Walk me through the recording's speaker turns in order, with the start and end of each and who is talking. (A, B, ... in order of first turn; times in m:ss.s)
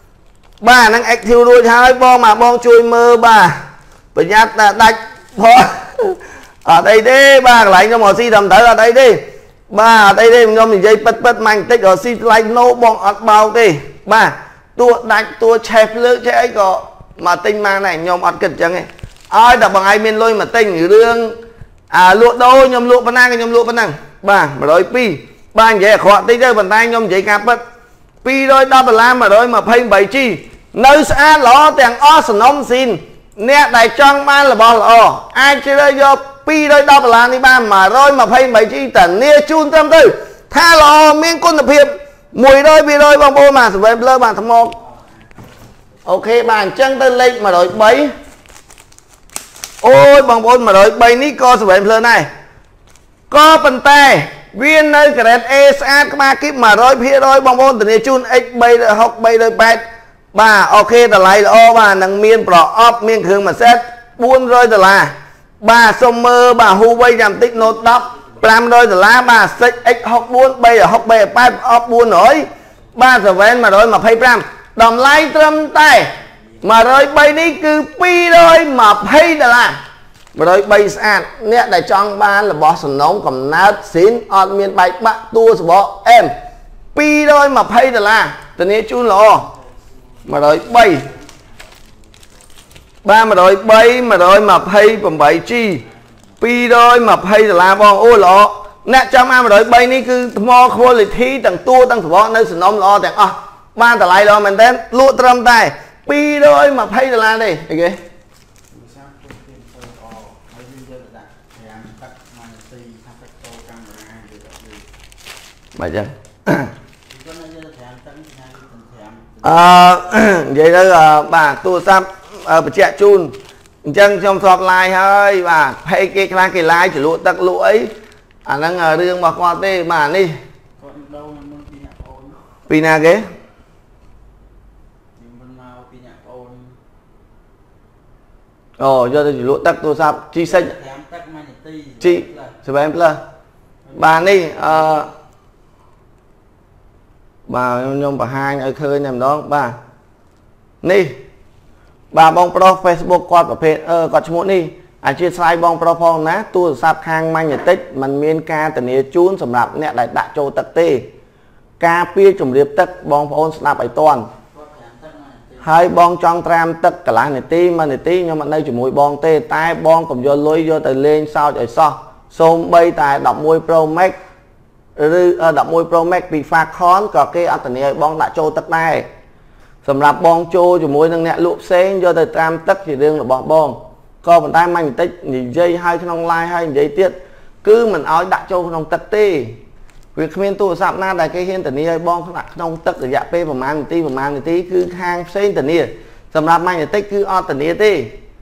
0:00.6-0:03.6 A
0:04.2-0:21.4 A
0:21.9-0:27.6 A
0:28.2-0:44.8 A
0:44.8-0:45.5 B
0:46.1-0:48.1 A
0:49.8-0:52.3 A
0:53.3-1:19.8 A
1:07.5-1:08.6 B
1:16.1-1:16.7 B
1:20.4-1:26.3 A
1:27.0-1:29.5 A
1:29.3-1:32.7 B
1:30.3-1:31.1 A
1:33.0-1:35.8 A
1:35.4-1:36.4 B
1:36.4-1:48.0 A
1:48.7-1:54.9 B
1:55.8-1:56.7 A
1:57.1-1:59.7 B
1:59.4-2:07.9 A
2:08.5-2:10.4 A
2:10.8-2:12.4 B
2:12.7-2:13.2 A
2:15.2-2:16.8 B
2:18.8-2:20.7 A
2:20.4-2:22.6 B
2:22.0-2:23.2 A
2:23.8-2:25.1 B
2:24.0-2:25.1 A
2:27.5-2:29.8 A
2:30.8-2:31.2 A
2:32.1-2:41.1 A
2:41.8-2:44.3 A
2:44.5-2:45.8 B
2:45.6-2:54.2 A
2:55.0-2:59.1 A
2:59.8-3:09.6 A
3:10.2-3:18.1 A